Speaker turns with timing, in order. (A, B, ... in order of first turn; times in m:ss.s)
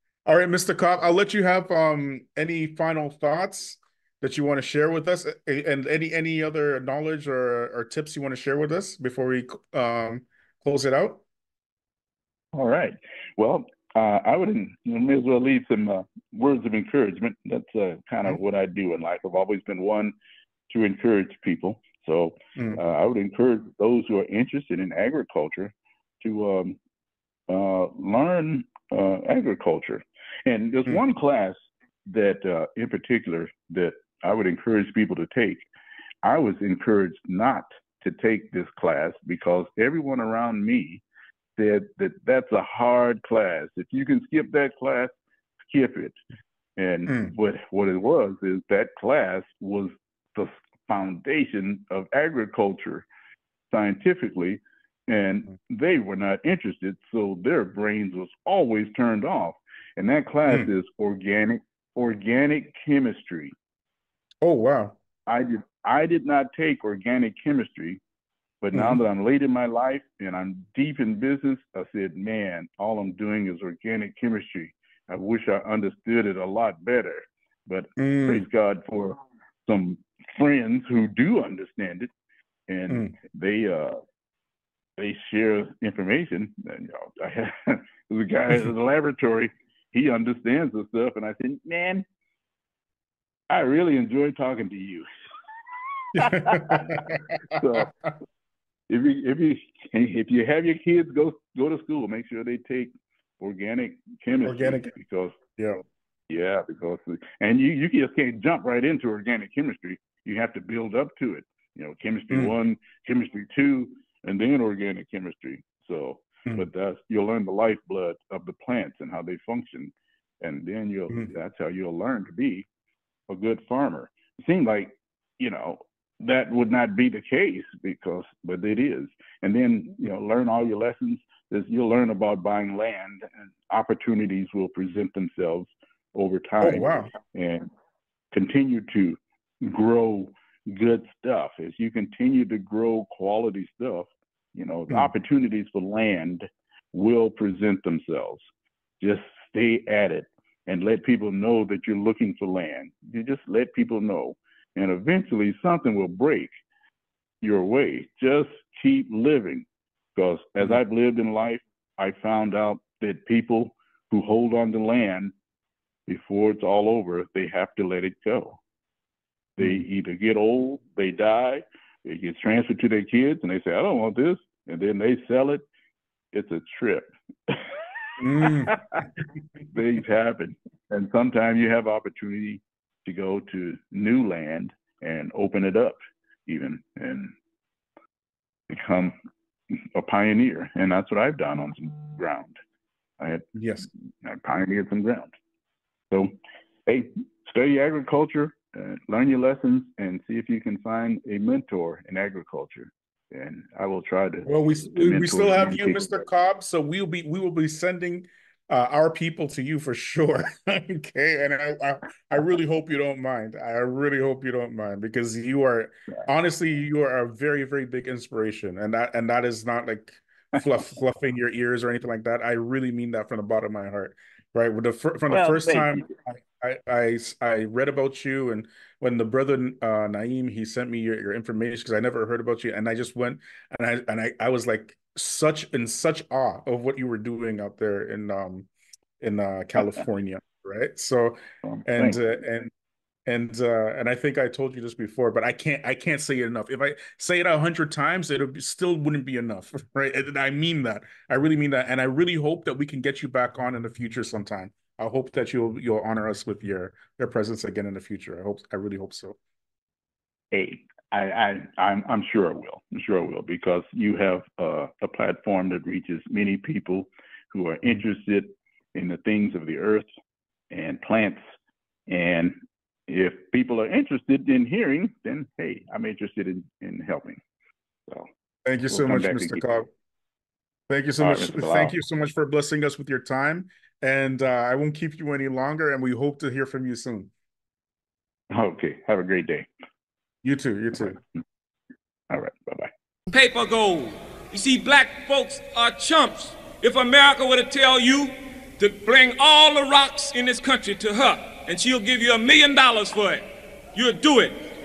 0:00.2-0:11.2 A
0:12.5-0:20.1 B
0:20.7-0:26.8 B
0:27.5-0:35.6 B
0:36.2-0:41.0 B
0:41.6-0:45.1 B
0:45.7-0:46.2 B
0:46.8-0:53.0 B
0:47.1-0:47.3 A
0:53.7-1:03.5 B
1:04.4-1:05.0 A
1:05.3-1:08.0 B
1:08.6-1:22.1 B
1:08.7-1:09.0 A
1:18.0-1:18.4 A
1:22.7-1:24.0 B
1:25.0-1:32.0 B
1:33.5-1:35.0 B
1:36.1-1:37.9 B
1:36.1-1:37.8 A
1:38.9-1:45.4 B
1:44.4-1:44.9 A
1:46.3-2:02.6 B
2:03.3-2:17.7 B
2:16.6-2:17.1 A
2:18.3-2:28.4 B
2:29.0-2:36.5 B
2:37.4-2:45.3 B
2:46.1-2:48.6 B
2:49.6-2:55.6 B
2:56.3-2:57.7 B
2:58.2-2:58.7 A
2:58.2-2:59.0 B
2:59.7-3:07.3 B
3:08.7-3:09.1 B
3:09.9-3:12.6 B
3:13.2-3:13.4 B
3:13.5-3:13.9 A
3:14.2-3:15.3 B
3:16.9-3:26.2 B
3:24.4-3:58.7 A
3:45.3-3:46.1 B
3:59.2-4:02.7 A
4:01.6-4:02.2 B
4:03.2-4:19.4 A
4:20.5-4:30.1 B
4:30.7-4:31.4 B
4:32.1-4:32.6 B
4:33.1-4:37.4 B
4:38.6-4:39.9 A
4:38.9-4:39.8 B
4:40.9-4:47.3 A
4:41.2-4:41.9 B
4:48.5-4:49.7 B
4:50.4-4:51.2 A
4:52.3-4:52.9 B
4:53.3-5:03.4 C
5:03.9-5:04.6 C